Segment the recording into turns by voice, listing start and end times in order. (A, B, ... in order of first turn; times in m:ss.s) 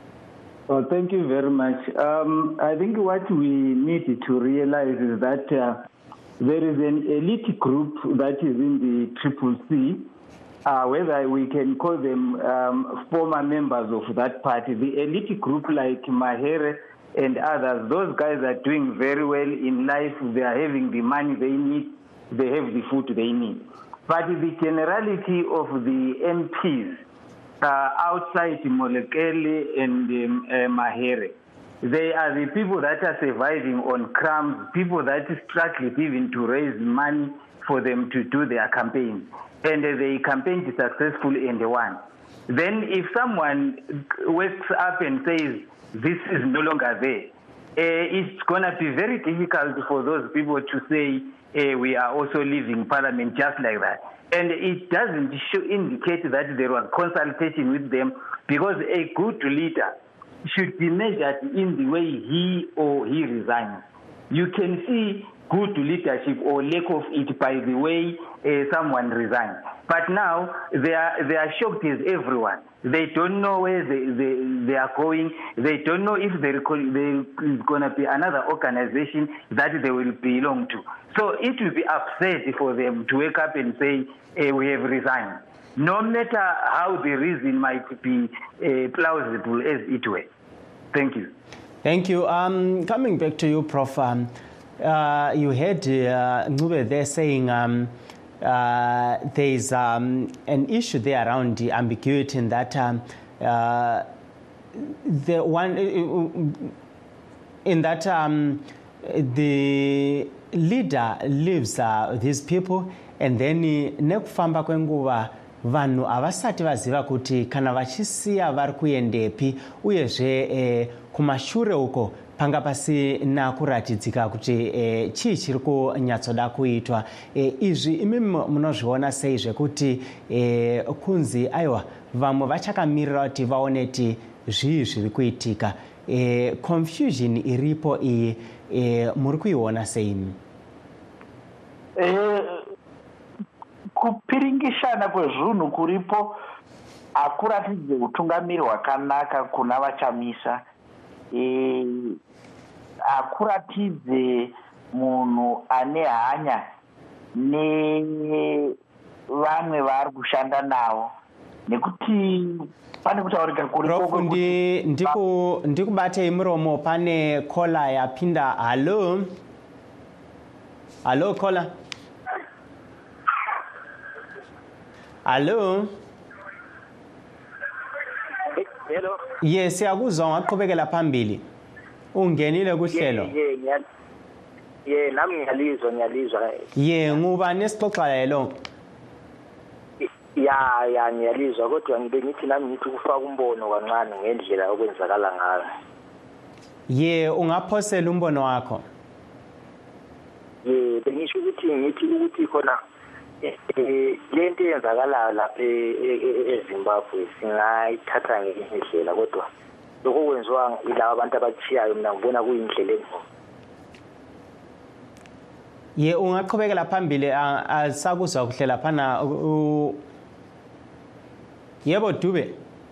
0:00.7-0:05.8 A
0:06.4-0:10.0 A
0:10.6-0:27.0 A
0:27.6-1:30.3 A
1:30.9-1:31.3 A
1:31.8-1:44.1 B
1:44.8-1:46.7 B
1:47.6-2:20.4 B
2:22.0-2:22.6 C
2:24.0-2:26.4 C
2:27.1-2:30.6 C
2:31.3-2:32.2 C
2:33.0-2:36.6 C
2:37.3-2:38.7 C
2:39.3-2:41.1 C
2:41.7-2:44.5 C
2:43.8-2:49.3 B
2:51.0-2:51.7 B
2:55.2-2:55.9 B
2:58.5-2:59.2 D
2:59.4-3:01.4 B
3:02.1-3:03.3 B
3:02.9-3:03.8 D
3:04.8-3:06.6 D
3:06.8-3:08.6 B
3:10.0-3:15.7 D
3:16.9-3:18.8 B
3:20.6-3:22.8 D
3:23.4-3:29.4 D
3:30.0-3:33.2 D
3:36.0-3:40.0 B
3:41.8-3:42.6 B